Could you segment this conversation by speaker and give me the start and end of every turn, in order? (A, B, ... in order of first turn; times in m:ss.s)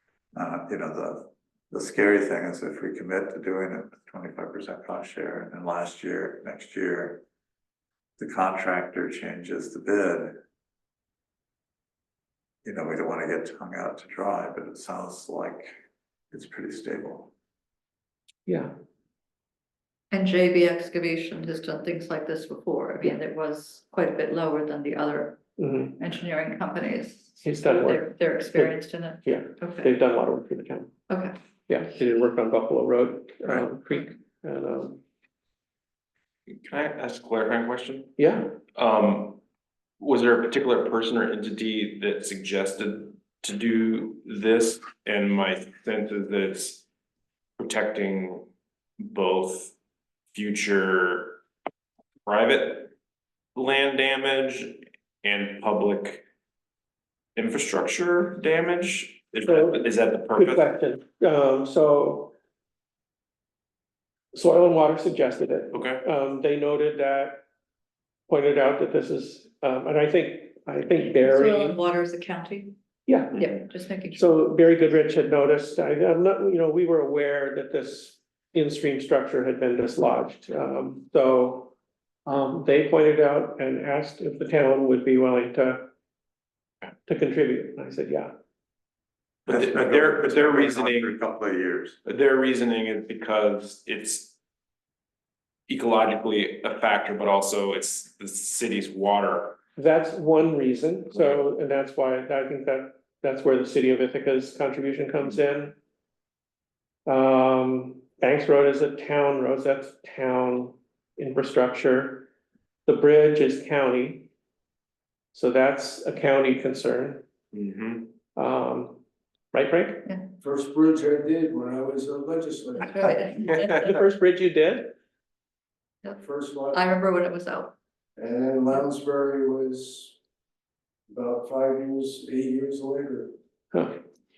0:00.3-0:07.2 A
0:08.2-0:10.4 A
0:12.6-0:15.7 A
0:16.3-0:17.3 A
0:18.4-0:18.7 B
0:20.1-0:25.4 C
0:25.6-0:26.0 B
0:26.0-0:29.9 C
0:27.4-0:31.0 B
0:31.1-0:31.3 C
0:31.7-0:35.0 B
0:36.5-0:39.4 D
0:38.2-0:38.6 B
0:40.0-0:46.8 D
0:47.6-0:48.5 D
0:49.0-0:49.7 D
0:50.3-0:51.4 D
0:52.2-0:52.9 D
0:53.6-0:56.2 D
0:57.4-1:00.7 D
0:59.5-0:59.8 B
1:00.3-1:02.3 B
1:04.3-1:07.4 B
1:05.7-1:06.0 D
1:08.3-1:11.8 B
1:11.1-1:12.7 C
1:13.0-1:13.6 B
1:13.3-1:14.3 C
1:14.1-1:21.7 B
1:22.2-1:25.9 B
1:27.0-1:28.3 B
1:29.5-1:31.1 D
1:29.5-1:32.0 A
1:32.0-1:34.3 D
1:35.7-1:39.6 D
1:39.8-1:45.7 B
1:47.0-1:52.3 B
1:52.8-1:54.3 B
1:55.3-1:57.2 B
1:57.5-1:58.1 D
1:58.3-1:59.0 B
1:59.5-2:00.1 B
2:00.0-2:00.3 C
2:00.4-2:03.3 E
2:02.8-2:04.0 C
2:03.4-2:04.9 B
2:06.0-2:07.8 C
2:06.2-2:06.8 E
2:08.2-2:10.2 E
2:11.1-2:13.3 E
2:13.7-2:14.0 B